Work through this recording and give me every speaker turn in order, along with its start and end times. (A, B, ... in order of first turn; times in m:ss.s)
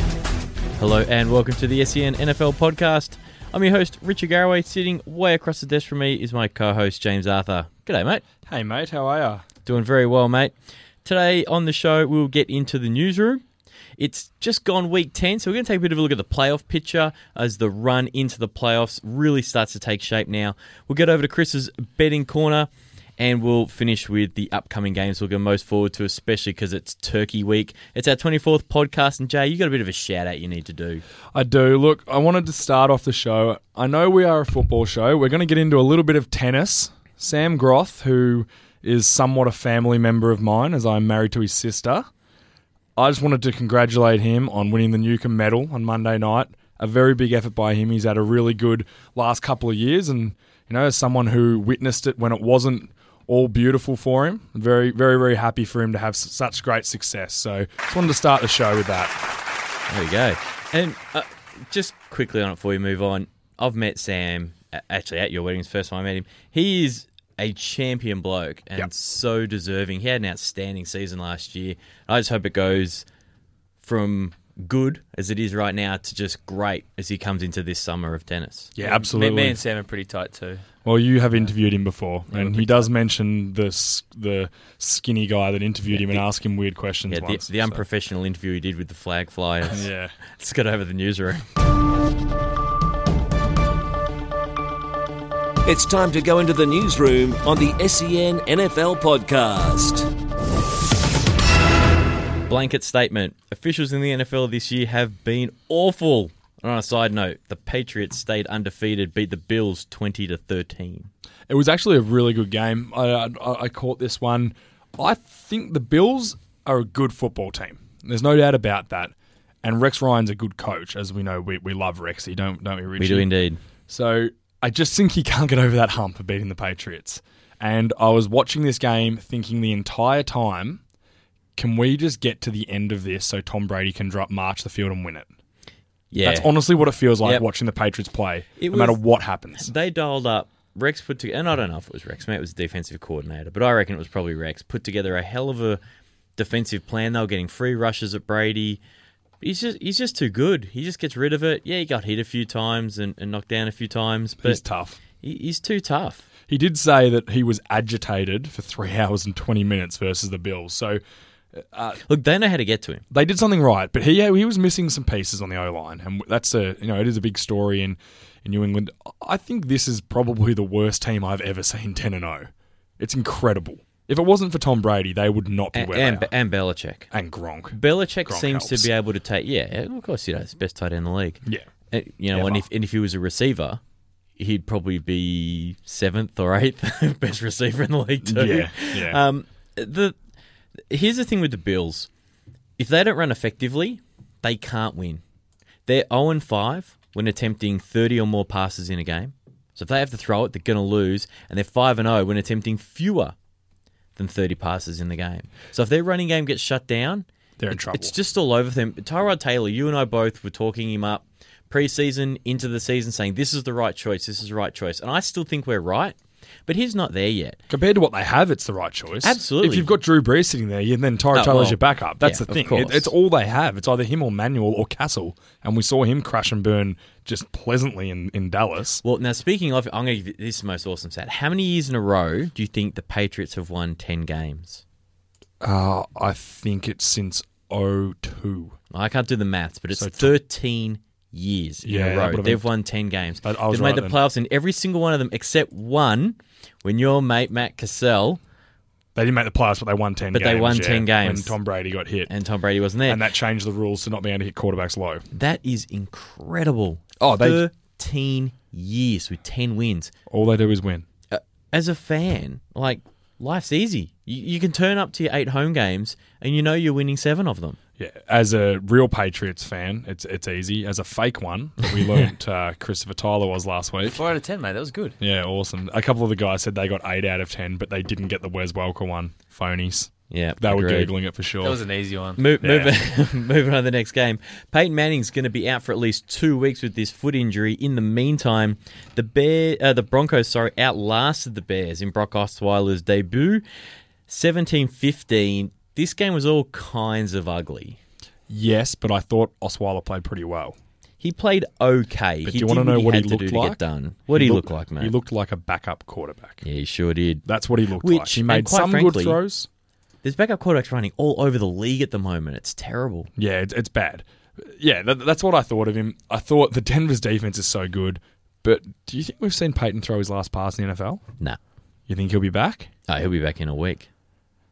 0:00.8-0:08.2 A
0:08.5-0:09.4 B
0:09.6-0:10.5 A
0:11.0-0:13.4 A
0:14.0-0:31.0 A
0:31.3-0:42.1 B
0:43.0-0:59.2 B
0:59.9-1:13.0 A
1:13.8-1:18.7 A
1:18.8-1:19.6 B
1:18.8-1:20.6 C
1:20.8-1:27.8 B
1:25.9-1:26.2 A
1:27.1-1:31.5 A
1:29.7-1:30.2 B
1:35.6-1:40.1 D
1:42.5-1:51.1 A
1:51.5-2:03.3 B
2:03.0-2:03.6 A
2:03.9-2:10.8 B
2:11.6-2:15.3 B
2:16.1-2:16.5 A
2:16.2-2:19.7 B
2:18.6-2:19.0 A
2:19.6-2:25.8 A
2:26.4-2:28.8 A
2:29.4-2:34.6 A
2:34.4-2:35.0 B
2:35.2-2:36.3 A
2:36.5-2:41.0 B
2:41.6-2:42.0 B
2:42.1-2:43.0 A
2:43.1-2:56.3 B
2:55.7-2:57.1 A
2:57.1-2:58.9 B
2:57.7-3:03.8 A
3:02.3-3:02.7 B
3:04.4-3:10.2 A
3:08.2-3:09.2 B
3:10.9-3:12.1 A
3:12.8-3:15.2 A
3:15.9-3:23.4 A
3:24.2-3:36.2 A
3:27.6-3:28.1 B
3:36.7-3:37.6 A
3:37.7-3:49.0 B
3:39.2-3:40.0 A
3:41.3-3:43.1 A
3:49.0-3:54.8 A
3:55.6-3:58.8 B
3:58.9-4:08.4 A
4:00.0-4:00.3 B
4:01.8-4:02.7 B
4:03.4-4:04.2 B
4:09.2-4:12.3 B
4:10.3-4:11.6 A
4:12.3-4:13.2 A
4:13.1-4:15.2 B
4:15.3-4:20.1 A
4:17.2-4:17.6 B
4:20.3-4:21.0 B
4:21.3-4:27.8 A
4:28.0-4:34.2 B
4:34.0-4:35.2 C
4:35.2-4:41.8 B
4:40.3-4:41.1 A
4:41.6-4:42.9 C
4:42.4-4:53.6 A
4:54.3-4:58.0 A
4:58.5-5:00.8 B
5:01.2-5:05.2 A
5:02.4-5:06.6 B
5:06.6-5:07.4 A
5:07.4-5:09.7 B
5:08.0-5:09.4 A
5:10.2-5:13.3 A
5:13.4-5:21.2 B
5:22.1-5:22.9 B
5:23.1-5:24.1 A